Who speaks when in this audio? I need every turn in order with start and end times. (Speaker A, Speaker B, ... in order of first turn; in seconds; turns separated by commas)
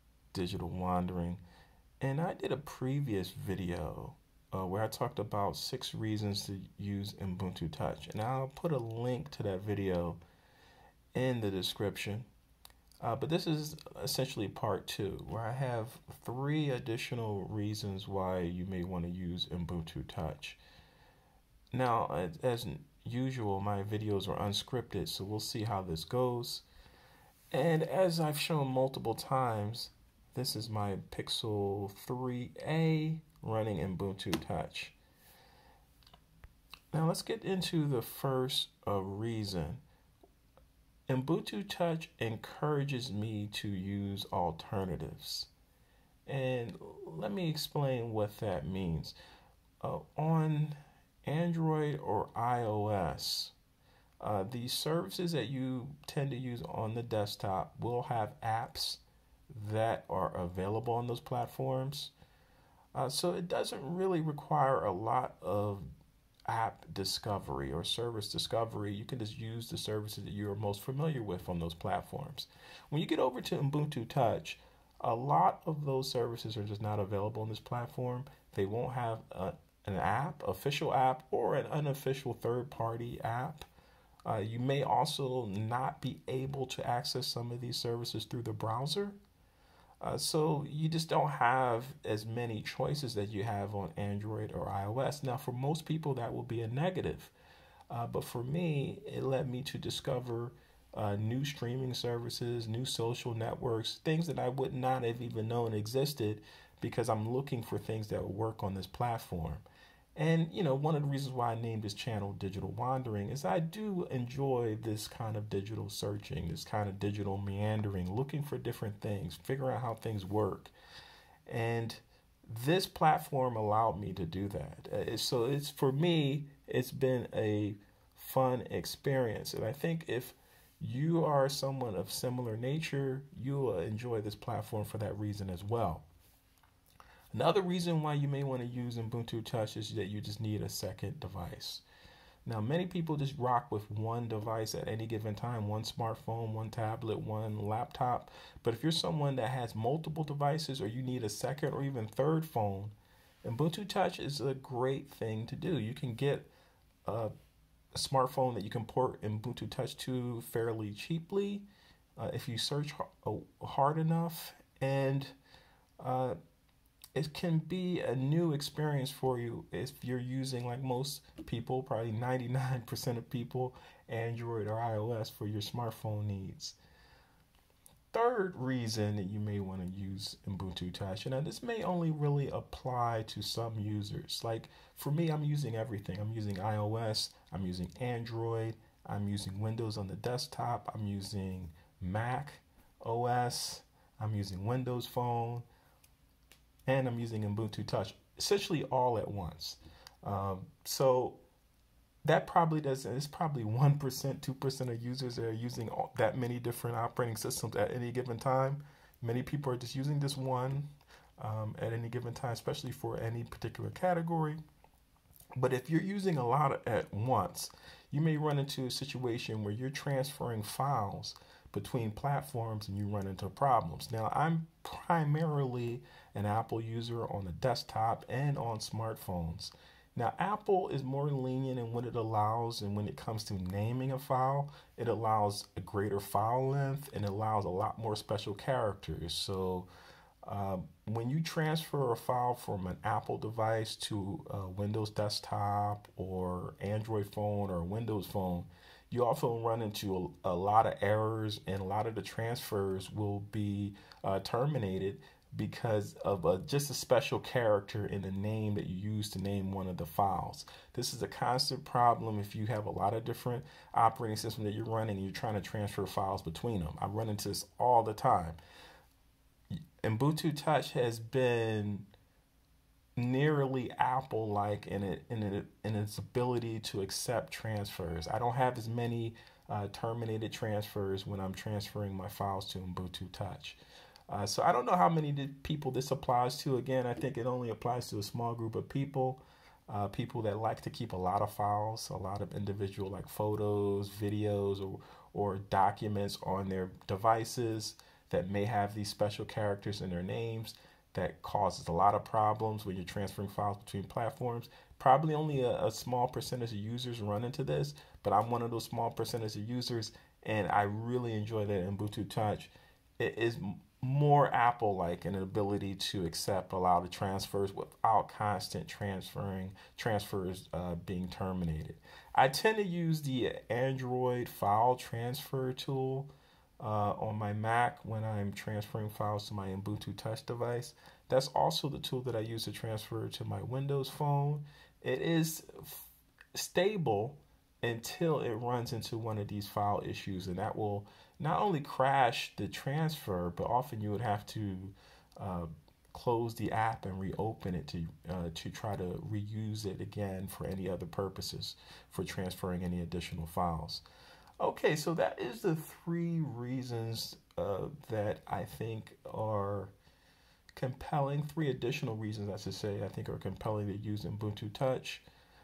Speaker A: 0.3-1.4, Speaker A: 2.0-10.2, Speaker A: 11.1-12.2, Speaker A: 13.0-20.6, Speaker A: 21.7-26.6, Speaker A: 27.5-34.9, Speaker A: 36.9-39.8, Speaker A: 41.1-45.5, Speaker A: 46.2-49.1, Speaker A: 49.8-53.5, Speaker A: 54.2-62.1, Speaker A: 62.9-65.8, Speaker A: 66.5-83.7, Speaker A: 84.2-89.2, Speaker A: 90.0-97.3, Speaker A: 97.9-109.6, Speaker A: 110.2-120.7, Speaker A: 121.5-136.0, Speaker A: 137.3-141.8, Speaker A: 142.4-156.5, Speaker A: 157.0-157.3, Speaker A: 157.9-161.7, Speaker A: 162.2-165.3, Speaker A: 166.0-166.3, Speaker A: 167.1-176.8, Speaker A: 178.1-195.7, Speaker A: 196.9-201.4, Speaker A: 202.2-210.9, Speaker A: 211.4-214.6, Speaker A: 215.5-239.9, Speaker A: 240.4-268.6, Speaker A: 270.0-272.1, Speaker A: 273.2-283.8, Speaker A: 284.3-354.0, Speaker A: 354.6-359.9, Speaker A: 360.8-365.2